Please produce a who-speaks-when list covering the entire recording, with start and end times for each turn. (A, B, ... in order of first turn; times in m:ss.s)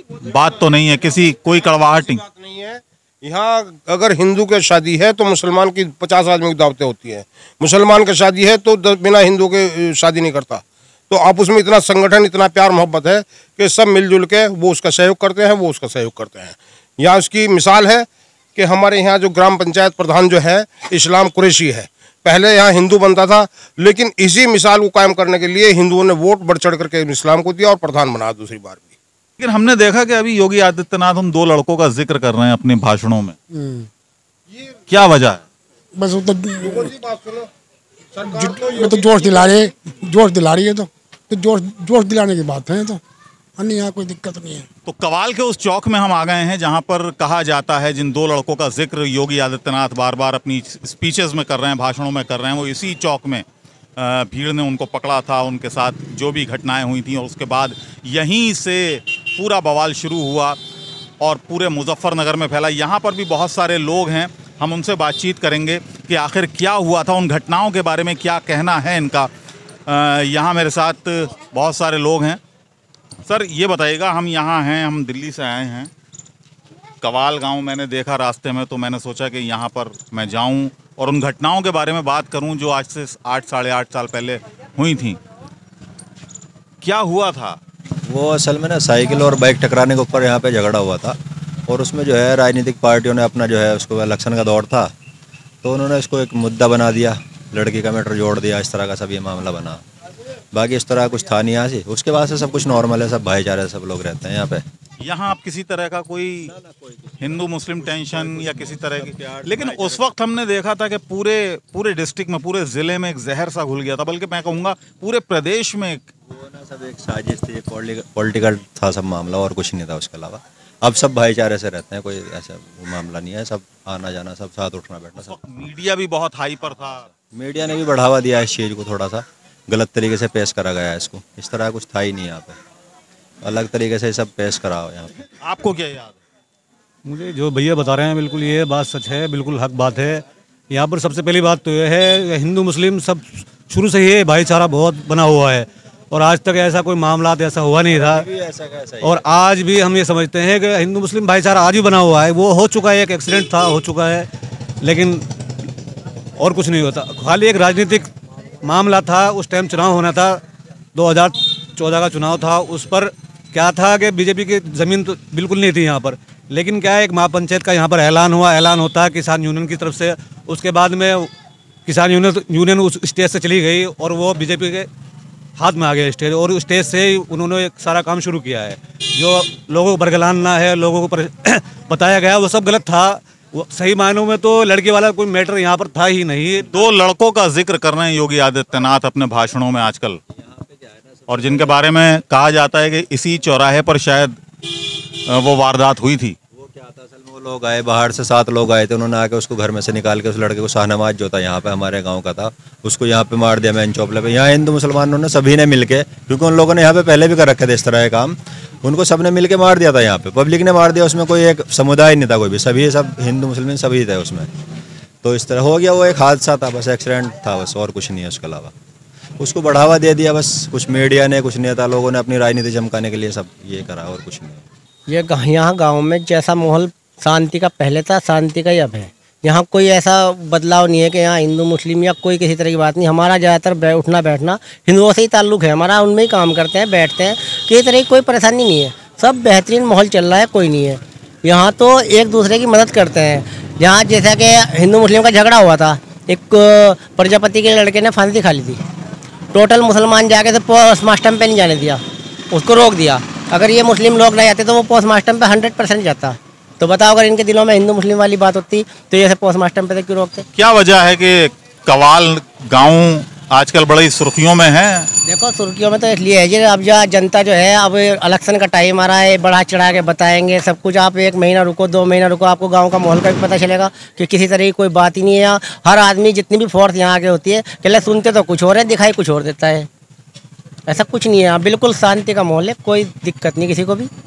0:00.2-0:02.2 A
0:02.2-0:29.0 B
0:29.4-0:33.4 A
0:33.5-0:33.9 C
0:34.9-0:35.4 A
0:36.0-0:36.9 C
0:36.8-0:37.4 B
0:38.2-0:39.4 B
0:38.3-0:43.0 C
0:43.6-0:44.7 C
0:44.8-0:53.4 A
0:54.0-1:00.6 A
1:01.2-1:09.3 A
1:09.9-1:12.4 A
1:13.2-1:15.9 A
1:17.0-1:25.2 A
1:26.8-1:27.6 A
1:28.0-1:34.9 D
1:35.6-1:39.8 D
1:40.5-1:44.6 D
1:45.0-1:46.5 A
1:46.4-1:50.2 D
1:47.2-1:56.1 A
1:56.2-2:05.4 D
2:05.2-2:07.0 A
2:06.6-2:12.6 D
2:13.4-2:15.2 D
2:15.4-2:16.2 A
2:17.0-2:28.2 E
2:27.9-2:29.2 D
2:29.0-2:34.3 E
2:34.8-2:35.2 E
2:36.4-2:38.1 E
2:38.6-2:40.4 E
2:40.9-2:51.3 E
2:51.8-2:54.9 E
2:55.6-3:06.6 E
3:06.7-3:10.2 A
3:10.3-3:11.9 D
3:11.3-3:14.4 A
3:15.2-3:16.4 A
3:16.5-3:34.5 D
3:35.2-3:38.7 D
3:39.4-3:44.6 D
3:45.1-4:08.8 F
4:09.5-4:20.4 F
4:20.5-4:25.1 A
4:25.2-4:39.9 F
4:40.9-4:44.1 F